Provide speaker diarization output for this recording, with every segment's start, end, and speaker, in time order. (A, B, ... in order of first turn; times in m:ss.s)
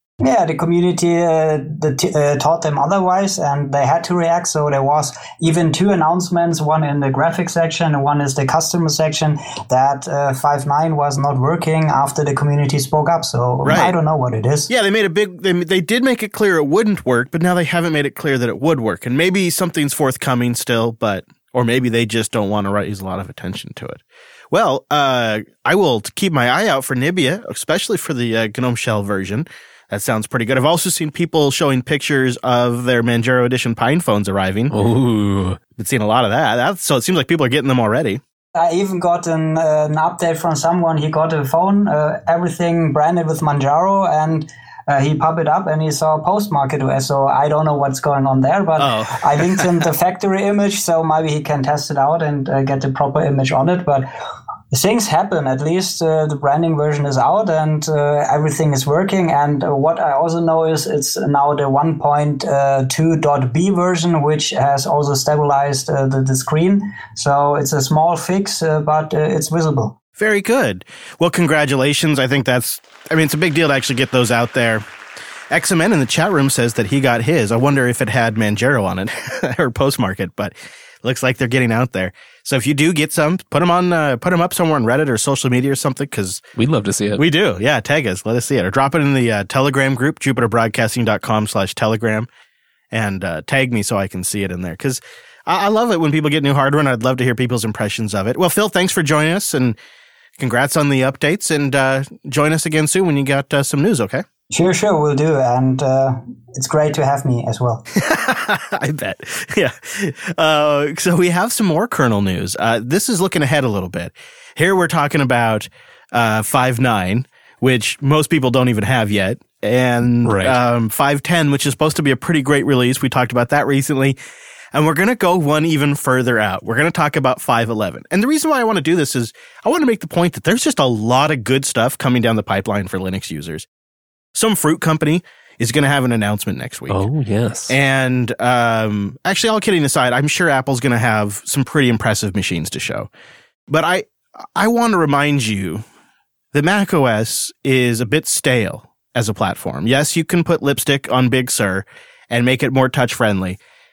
0:00.2-0:14.7 A
0:13.6-0:13.9 B
0:14.7-0:34.7 B
0:34.7-0:35.6 C
0:35.8-0:38.2 B
0:38.5-0:54.1 A
0:48.8-0:49.7 B
0:54.7-1:10.0 A
1:10.2-1:14.8 B
1:15.5-1:26.4 B
1:26.6-1:27.2 C
1:27.2-1:32.3 B
1:32.9-1:39.8 B
1:40.4-1:44.2 B
1:44.5-1:47.8 A
1:47.9-2:04.2 B
2:00.2-2:00.6 C
2:04.7-2:13.7 B
2:14.3-2:17.0 B
2:16.9-2:17.7 C
2:17.7-2:23.1 B
2:23.7-2:25.8 B
2:26.5-2:33.6 B